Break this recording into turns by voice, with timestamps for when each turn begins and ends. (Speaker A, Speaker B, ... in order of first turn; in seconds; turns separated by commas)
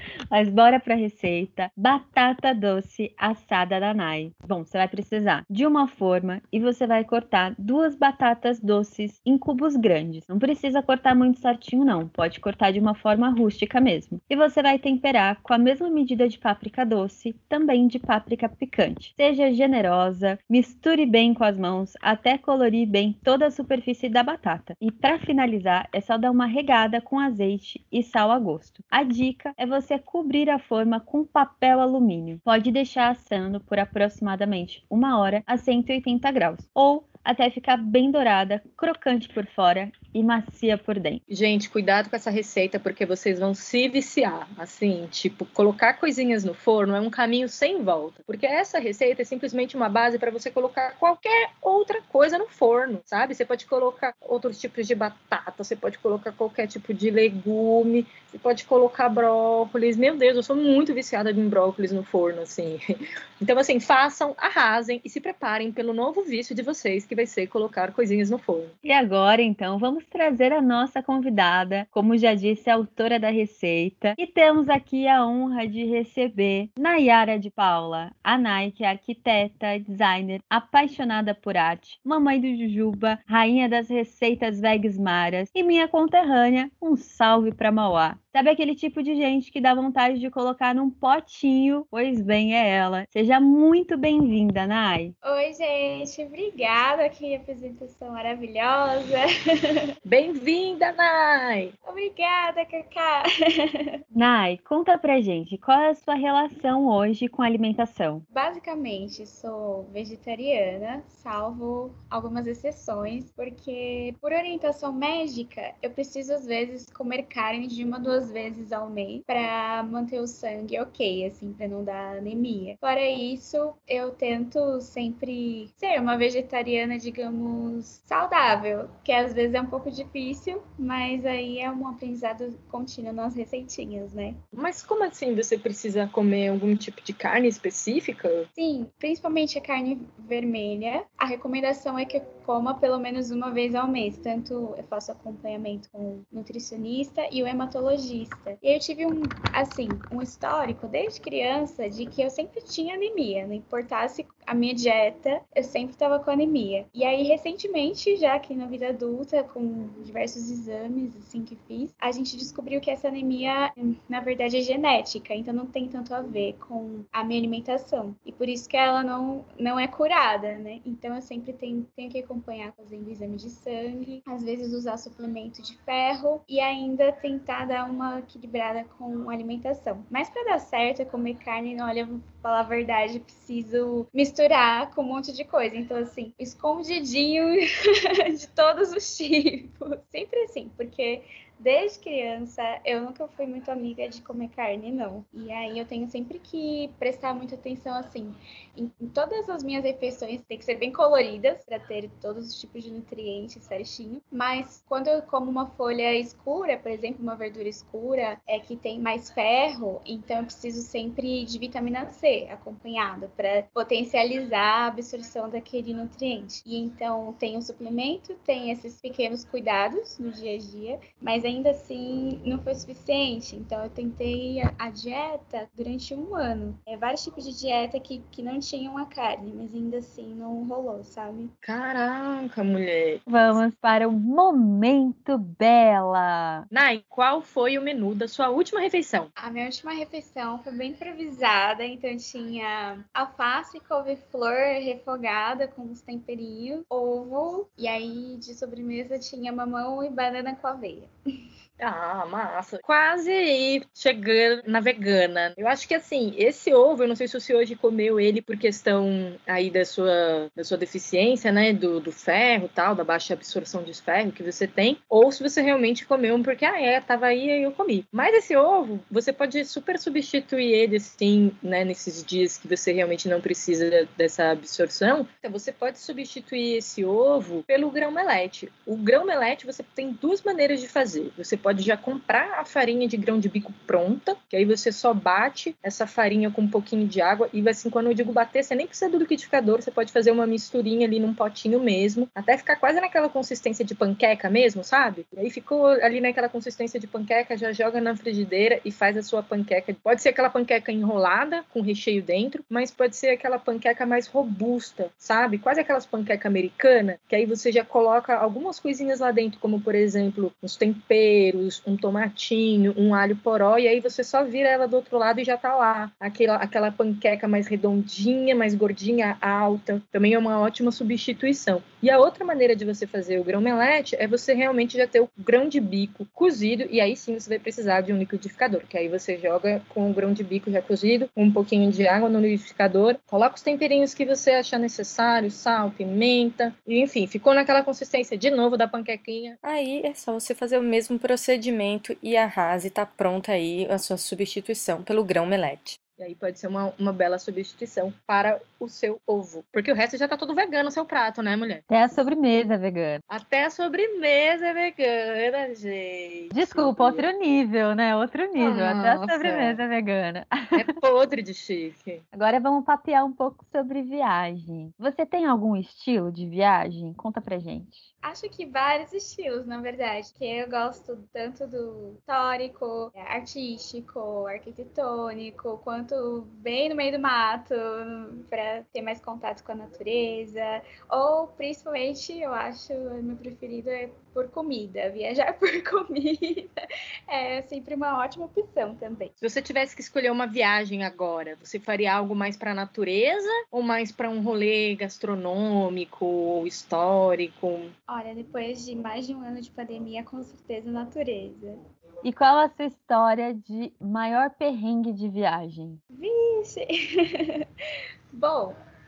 Speaker A: 0.3-41.2, Speaker B: 41.3-68.7, Speaker A: 68.8-95.1, Speaker C: 95.2-99.9, Speaker B: 100.0-101.7, Speaker C: 101.8-104.0, Speaker A: 104.1-108.2, Speaker C: 108.3-134.4, Speaker B: 134.5-138.5, Speaker C: 138.6-231.5, Speaker B: 231.6-233.2, Speaker A: 233.3-236.7, Speaker B: 236.7-239.3, Speaker C: 239.4-251.1, Speaker B: 251.8-339.6, Speaker D: 339.6-346.0, Speaker B: 346.2-351.8, Speaker A: 351.9-353.2, Speaker B: 353.3-357.2, Speaker A: 356.5-361.0, Speaker B: 358.6-359.8, Speaker B: 360.7-362.2, Speaker A: 362.3-368.1, Speaker C: 368.2-386.7, Speaker C: 387.3-389.3, Speaker B: 389.4-397.9, Speaker C: 398.1-401.8, Speaker A: 402.2-406.0, Speaker C: 406.1-407.7, Speaker C: 408.3-408.8